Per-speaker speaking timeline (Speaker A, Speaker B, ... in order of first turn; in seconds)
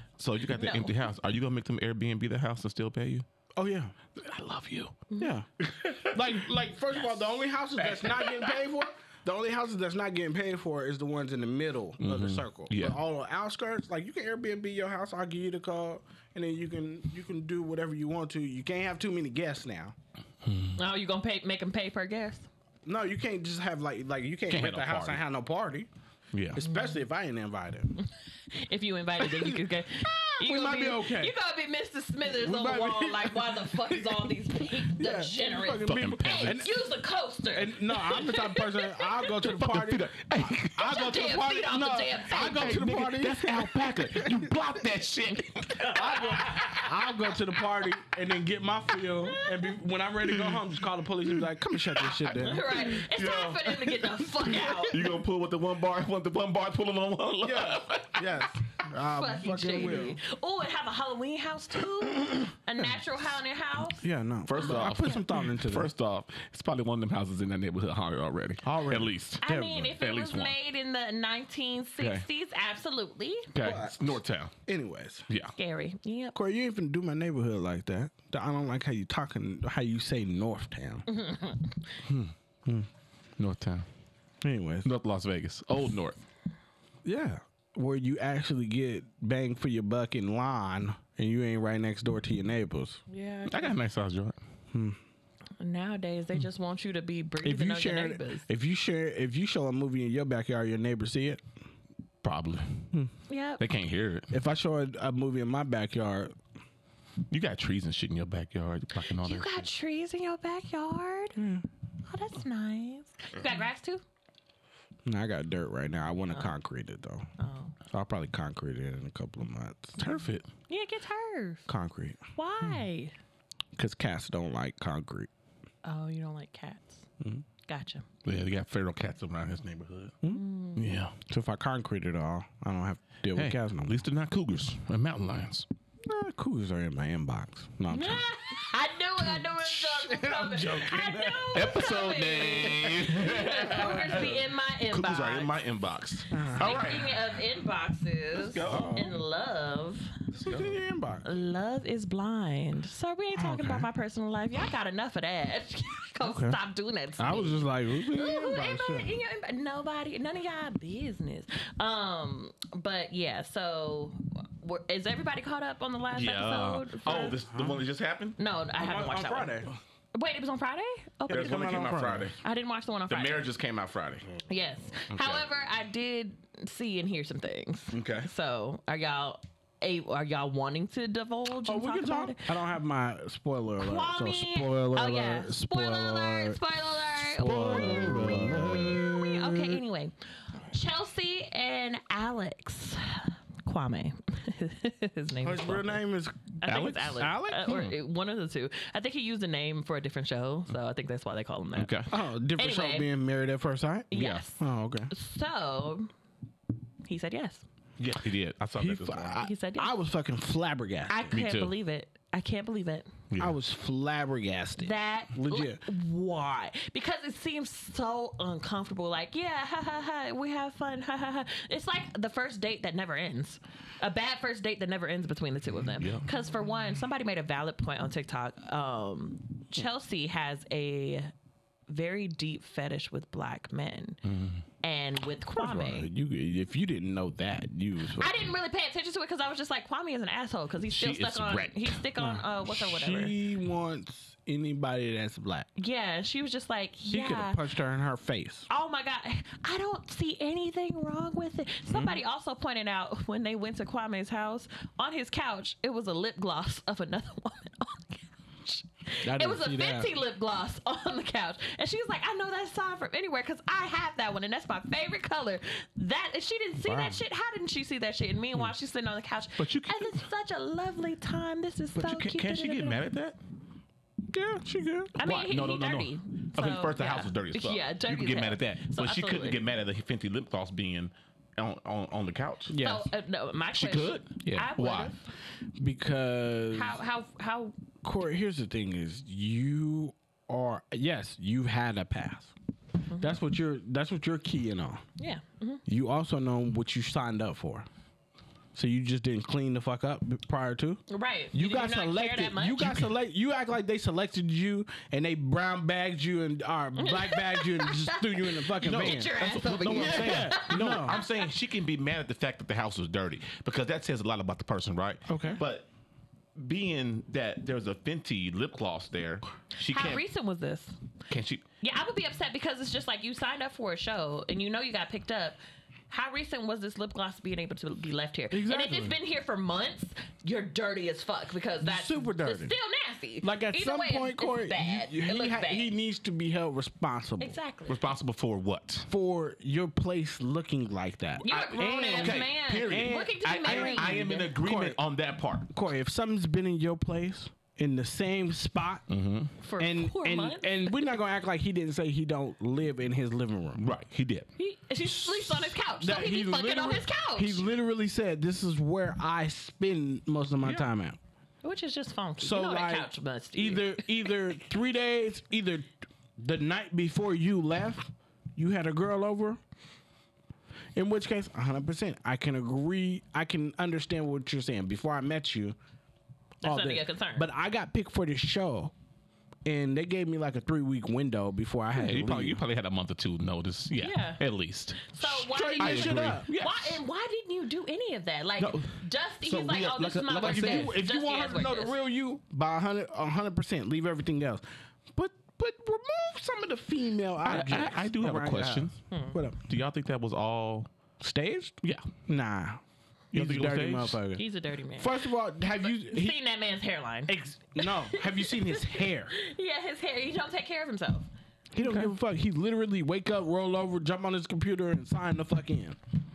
Speaker A: 0.2-3.2, 4.2-5.0, 5.6-6.3, 7.8-8.6, 12.0-13.0, 20.4-20.8, 24.5-25.2, 26.3-26.6, 35.9-36.6, 39.4-41.0, 42.4-46.6, 50.3-50.6, 52.7-58.3, 64.5-70.5, 73.5-74.5, 75.3-75.5, 82.0-82.3, 83.4-83.8, 84.8-86.2, 93.5-94.4, 102.2-102.9, 103.6-104.3, 107.3-109.7, 120.0-120.5, 128.2-130.2, 130.8-131.2, 133.3-135.7, 140.2-147.3, 148.3-149.1, 150.4-150.8, 166.1-168.4, 171.3-172.4, 173.1-174.3, 175.1-175.5, 177.9-178.3, 187.3-189.0, 196.6-197.9, 201.7-202.1, 204.1-204.4, 208.0-209.5, 211.3-211.7, 213.3-213.5, 225.8-226.2, 234.2-234.6, 240.9-242.0, 269.6-270.2, 271.9-273.4, 275.1-282.7, 283.7-285.1, 308.8-315.9, 316.6-320.2, 321.3-321.6, 337.9-339.1, 341.4-345.7, 349.1-349.5, 353.8-354.5, 381.9-387.0, 388.6-391.0, 397.4-398.9, 399.6-400.9, 403.3-404.2, 411.8-412.1
Speaker B: 0.5-0.9, 5.1-5.3, 20.8-22.5, 28.0-39.3, 40.8-42.8, 45.8-46.9, 49.2-49.7, 52.3-55.1, 59.0-65.2, 69.4-73.5, 75.6-76.3, 81.1-81.8, 93.1-93.8, 95.6-98.5, 103.3-103.6, 109.2-111.4, 112.0-114.0, 117.4-117.7, 120.7-121.7, 122.3-123.1, 125.8-127.1, 127.7-128.0, 130.3-130.8, 137.9-145.6, 146.4-150.1, 151.2-167.4, 168.4-173.5, 174.5-182.5, 183.8-188.1, 189.0-190.1, 190.7-196.0, 196.6-202.0, 202.6-203.1, 204.1-206.1, 207.0-207.6, 209.4-209.9, 211.1-213.1, 214.8-231.3, 231.9-234.2, 234.8-236.1, 238.1-243.3, 245.8-247.6, 248.7-273.0, 275.2-279.6, 282.7-285.2, 286.7-287.8, 293.1-293.4, 295.2-295.8, 301.1-303.1, 307.0-311.5, 319.8-321.0, 321.8-325.6, 326.1-335.9, 337.4-338.0, 341.4-344.5, 349.6-351.1, 354.6-357.6, 361.6-364.3, 376.6-377.4, 384.0-384.4, 385.1-392.0, 399.1-399.4, 404.3-405.2, 405.9-411.3
Speaker C: 3.5-3.9, 5.2-5.5, 6.0-19.9, 22.8-25.9, 26.5-28.0, 29.2-31.3, 32.2-36.8, 37.5-44.5, 45.8-52.9, 57.4-60.2, 64.0-65.9, 68.6-69.9, 73.6-75.3, 76.3-81.1, 84.4-84.9, 87.0-93.0, 94.7-95.0, 97.4-101.4, 104.3-106.3, 111.3-111.6, 115.0-117.3, 117.9-120.0, 121.7-122.2, 123.8-125.3, 131.2-134.0, 136.0-138.3, 139.8-141.1, 143.7-144.3, 146.3-146.8, 148.7-149.1, 150.3-151.2, 153.3-153.9, 156.2-156.6, 157.2-159.2, 167.4-167.8, 168.7-169.8, 171.3-172.3, 181.6-189.6, 195.4-196.6, 197.1-197.8, 202.1-205.1, 208.8-211.4, 213.4-215.8, 235.5-238.5, 242.2-245.7, 247.1-248.7, 259.2-260.1, 266.9-267.1, 274.3-275.1, 282.7-283.1, 285.8-287.0, 288.0-292.5, 293.2-295.0, 295.9-297.9, 298.7-311.2, 315.3-315.6, 328.5-329.1, 331.8-332.7, 333.4-337.6, 339.1-345.0, 345.7-349.1, 349.8-353.8, 355.0-361.2, 362.4-369.6, 370.9-375.8, 376.6-378.9, 379.6-382.6, 385.4-386.4, 390.3-399.6, 401.2-404.4, 404.9-406.4, 407.3-409.3, 411.7-416.0